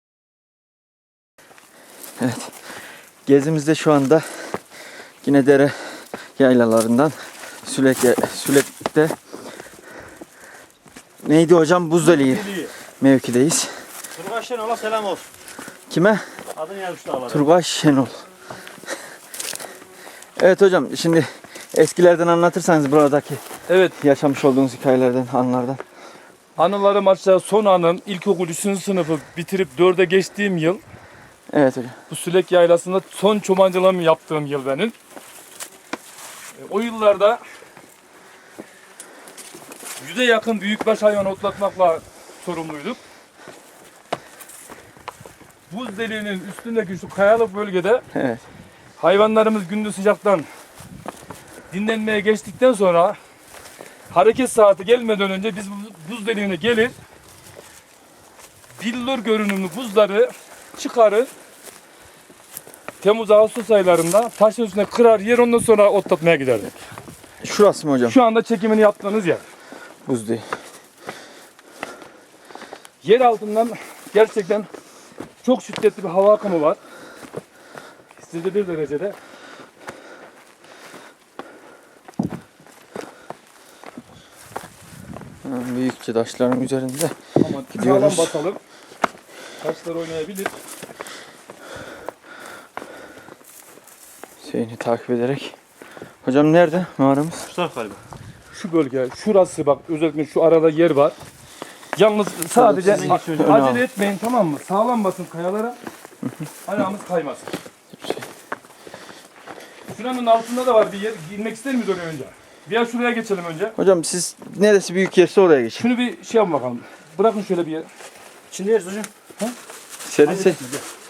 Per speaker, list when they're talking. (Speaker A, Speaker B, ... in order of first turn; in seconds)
Speaker A: 2.2-2.5, 3.3-4.2, 5.2-5.7, 6.4-7.1, 7.7-9.1, 11.2-13.7, 15.9-16.2, 17.3-18.2, 20.4-23.4, 24.0-25.8, 31.5-31.9, 48.1-48.4, 67.4-68.2, 70.1-70.4, 85.5-87.2, 87.7-88.3, 94.4-95.5, 96.2-97.5, 102.5-103.8, 108.0-108.2, 113.8-115.9, 120.0-120.6
Speaker B: 12.0-12.7, 14.2-15.3, 16.6-17.5, 97.5-98.0, 102.8-103.5, 118.5-119.1, 120.2-120.8
Speaker C: 23.7-24.0, 26.6-30.8, 32.1-35.0, 36.6-37.4, 40.0-43.0, 45.7-48.0, 49.0-50.5, 51.7-53.2, 54.1-57.0, 58.8-61.3, 63.0-66.7, 68.0-69.4, 73.0-74.7, 75.4-76.8, 78.2-79.2, 87.4-88.6, 89.6-90.5, 98.5-101.2, 102.0-105.8, 106.7-107.5, 109.9-113.8, 115.8-117.9